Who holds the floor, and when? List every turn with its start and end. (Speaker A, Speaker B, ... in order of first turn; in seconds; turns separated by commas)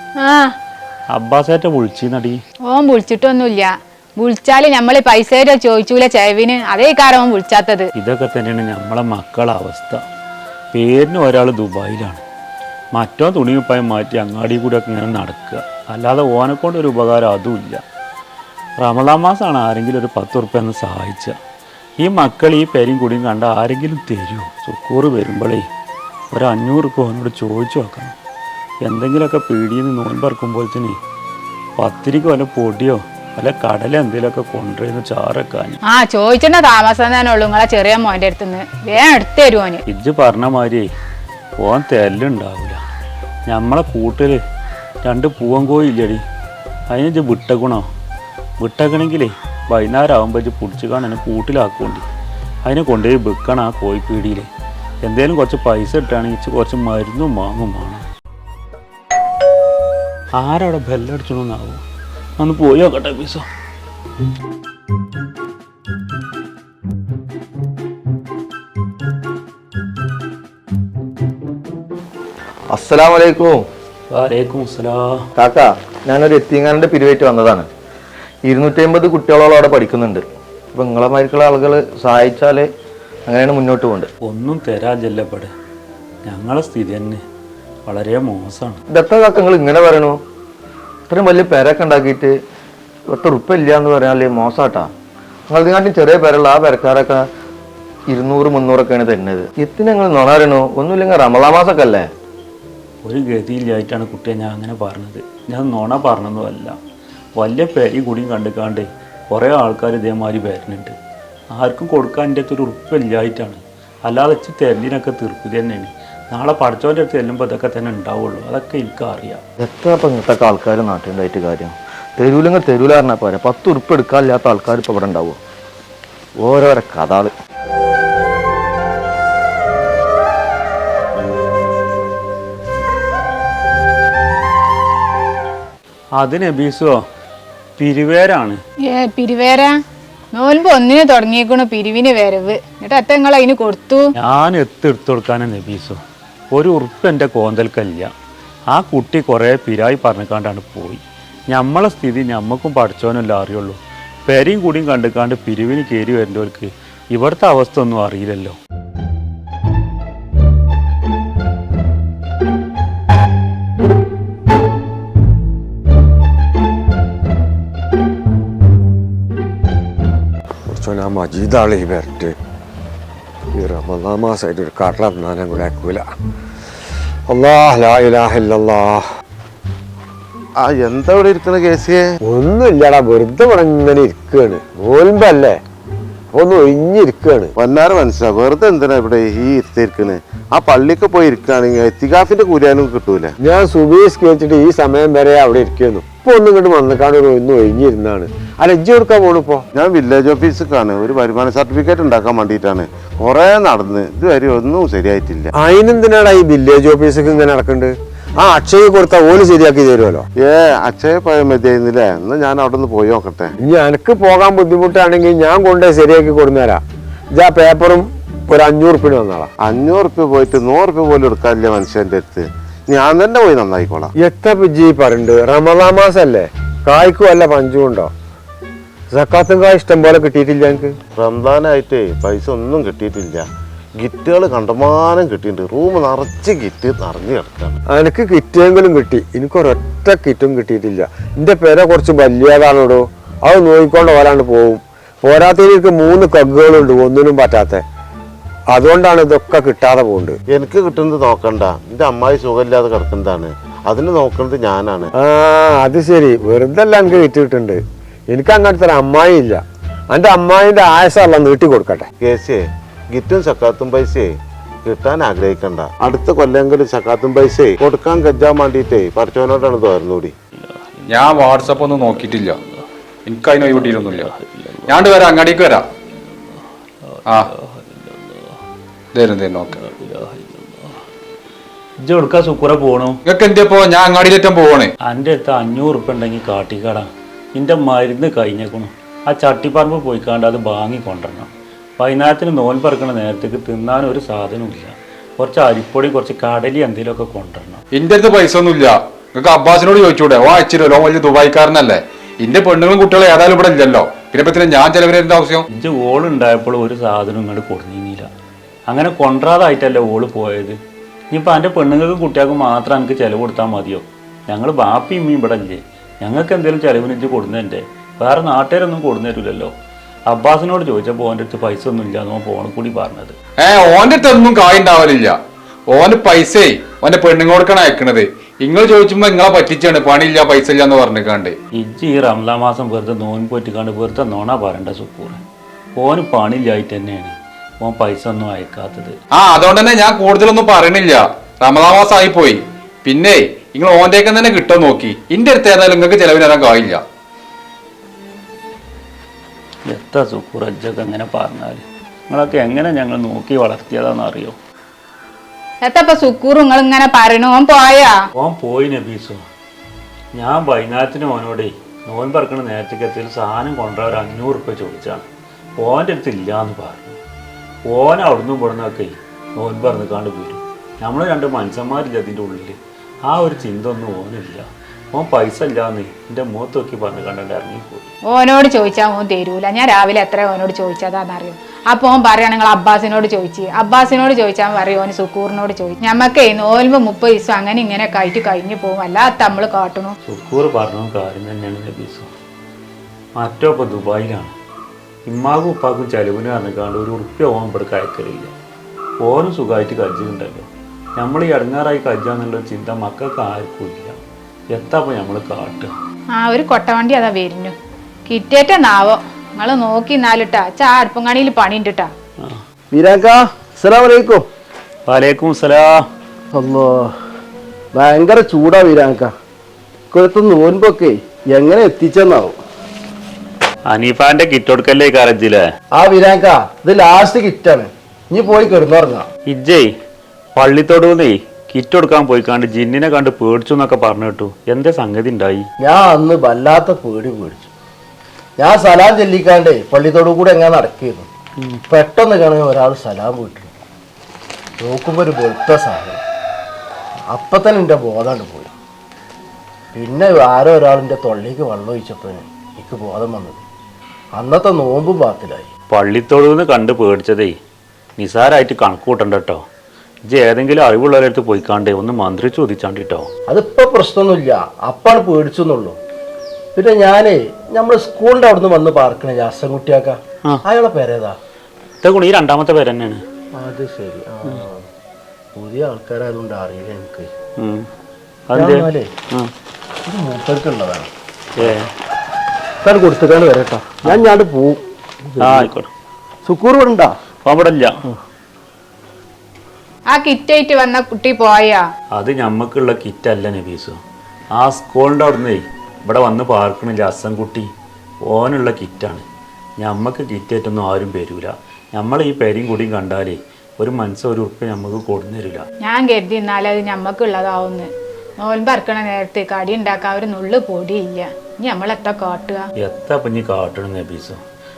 Speaker A: 0.2-0.5, Speaker B: 1.1-2.4, Speaker A: 2.7-7.9, Speaker B: 8.0-10.0, Speaker B: 10.7-12.2, Speaker B: 12.9-17.8, Speaker B: 18.8-21.4, Speaker B: 22.0-25.6, Speaker B: 26.3-28.1, Speaker B: 28.8-31.0, Speaker B: 31.8-35.8, Speaker A: 35.9-39.8, Speaker B: 39.9-40.9, Speaker B: 41.6-42.8, Speaker B: 43.5-44.4, Speaker B: 45.0-46.2, Speaker B: 46.9-47.8, Speaker B: 48.6-52.0, Speaker B: 52.6-54.5, Speaker B: 55.0-58.0, Speaker B: 60.4-61.8, Speaker B: 62.4-63.4, Speaker C: 72.7-73.6, Speaker B: 74.1-75.1, Speaker C: 75.3-77.7, Speaker C: 78.5-82.7, Speaker C: 83.3-84.1, Speaker B: 84.2-85.5, Speaker B: 86.2-87.2, Speaker B: 87.8-88.8, Speaker C: 88.9-90.2, Speaker C: 91.1-92.3, Speaker C: 93.1-94.9, Speaker C: 95.5-97.2, Speaker C: 98.1-102.1, Speaker B: 103.0-106.8, Speaker B: 107.4-110.9, Speaker B: 111.5-119.4, Speaker C: 119.6-125.4, Speaker C: 126.4-127.3, Speaker B: 136.2-137.0, Speaker B: 137.8-138.6, Speaker A: 138.8-139.7, Speaker A: 140.3-144.1, Speaker B: 144.2-146.0, Speaker B: 146.5-148.1, Speaker B: 148.7-158.6, Speaker D: 170.7-172.3, Speaker D: 173.5-176.0, Speaker D: 177.3-179.0, Speaker E: 180.6-182.0, Speaker D: 182.2-185.6, Speaker D: 186.3-187.5, Speaker E: 187.6-193.3, Speaker D: 193.4-199.6, Speaker E: 199.8-205.5, Speaker D: 205.6-210.2, Speaker E: 210.4-213.5, Speaker D: 213.6-216.8, Speaker D: 217.3-219.5, Speaker E: 219.6-224.1, Speaker D: 224.2-228.1, Speaker D: 229.1-230.9, Speaker E: 231.2-233.4, Speaker E: 234.0-237.8, Speaker D: 237.9-247.8, Speaker D: 248.7-250.4, Speaker E: 250.5-255.1, Speaker D: 255.2-257.8, Speaker D: 258.3-262.1, Speaker E: 262.2-264.3, Speaker E: 264.9-270.3, Speaker F: 271.1-272.6, Speaker B: 271.6-271.9, Speaker F: 273.2-274.3, Speaker B: 273.8-275.1, Speaker F: 274.9-275.8, Speaker B: 277.1-278.4, Speaker F: 279.1-279.8, Speaker B: 279.8-280.9, Speaker B: 282.0-283.2, Speaker F: 283.2-284.9, Speaker B: 285.0-297.8, Speaker F: 297.9-305.6, Speaker B: 305.7-308.3, Speaker B: 308.9-310.8, Speaker B: 311.3-319.7, Speaker B: 320.3-323.4, Speaker F: 323.6-325.4, Speaker F: 325.9-331.6, Speaker B: 331.7-335.4, Speaker B: 336.0-339.1, Speaker F: 339.3-347.0, Speaker B: 349.9-354.6, Speaker A: 355.8-358.1, Speaker B: 358.4-359.4, Speaker B: 360.3-365.2, Speaker B: 365.8-367.2, Speaker B: 367.9-378.1, Speaker A: 378.3-390.1, Speaker B: 390.2-392.3, Speaker B: 393.4-394.5, Speaker B: 395.3-398.5, Speaker B: 399.2-404.2, Speaker B: 404.7-405.9, Speaker A: 406.3-407.7, Speaker A: 408.2-412.1, Speaker G: 412.9-414.4, Speaker B: 415.1-416.0, Speaker G: 416.5-417.1, Speaker G: 417.9-419.3, Speaker G: 420.1-422.6, Speaker B: 423.9-425.6, Speaker G: 425.9-429.2, Speaker B: 429.5-429.9, Speaker B: 430.6-435.6, Speaker G: 435.8-437.7, Speaker G: 438.6-441.2, Speaker G: 441.9-443.7, Speaker G: 444.8-446.2, Speaker G: 447.3-448.7, Speaker G: 449.9-453.6, Speaker G: 454.3-455.7, Speaker B: 455.9-457.6, Speaker B: 458.2-459.6, Speaker B: 460.3-463.3, Speaker G: 463.5-466.0, Speaker G: 466.8-471.4, Speaker B: 472.0-473.2, Speaker G: 473.5-474.8, Speaker G: 475.6-477.3, Speaker B: 477.6-477.9, Speaker B: 478.5-479.5, Speaker G: 478.5-479.1, Speaker G: 480.1-481.1, Speaker B: 481.6-481.9, Speaker G: 482.8-485.7, Speaker B: 485.4-485.9, Speaker G: 486.4-487.1, Speaker B: 487.4-487.9, Speaker A: 490.1-491.8, Speaker B: 492.1-494.0, Speaker B: 494.5-497.7, Speaker B: 498.2-499.2, Speaker B: 499.8-505.6, Speaker A: 505.8-512.7, Speaker B: 512.8-514.4